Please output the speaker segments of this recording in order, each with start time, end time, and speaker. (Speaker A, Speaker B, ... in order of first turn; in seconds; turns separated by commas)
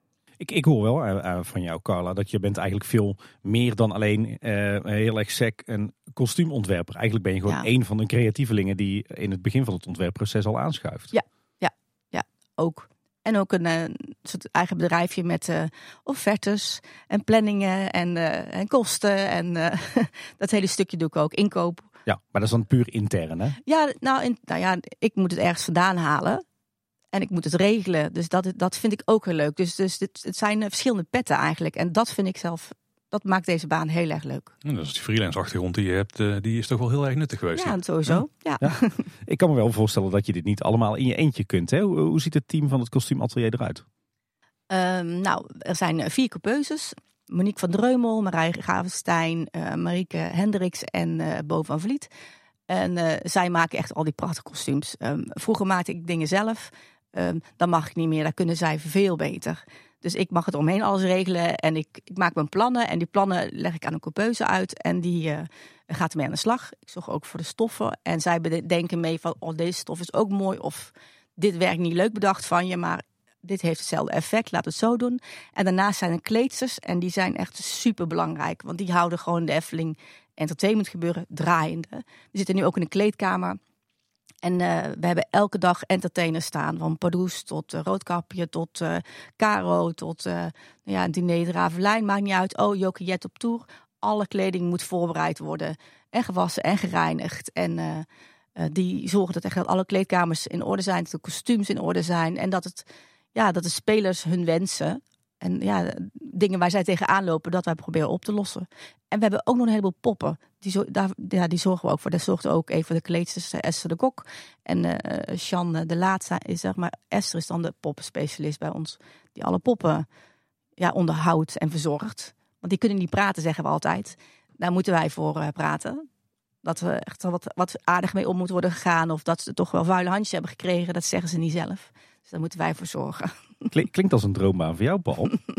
Speaker A: 0.4-11.1, Speaker B: 11.1-21.9, Speaker A: 22.1-23.6, Speaker B: 23.6-26.4, Speaker B: 27.1-34.5, Speaker C: 34.6-37.8, Speaker B: 37.5-39.1, Speaker A: 38.6-43.8, Speaker B: 44.7-52.1, Speaker B: 52.7-83.6, Speaker B: 84.4-120.0, Speaker B: 120.8-126.0, Speaker B: 126.6-133.7, Speaker A: 133.7-135.3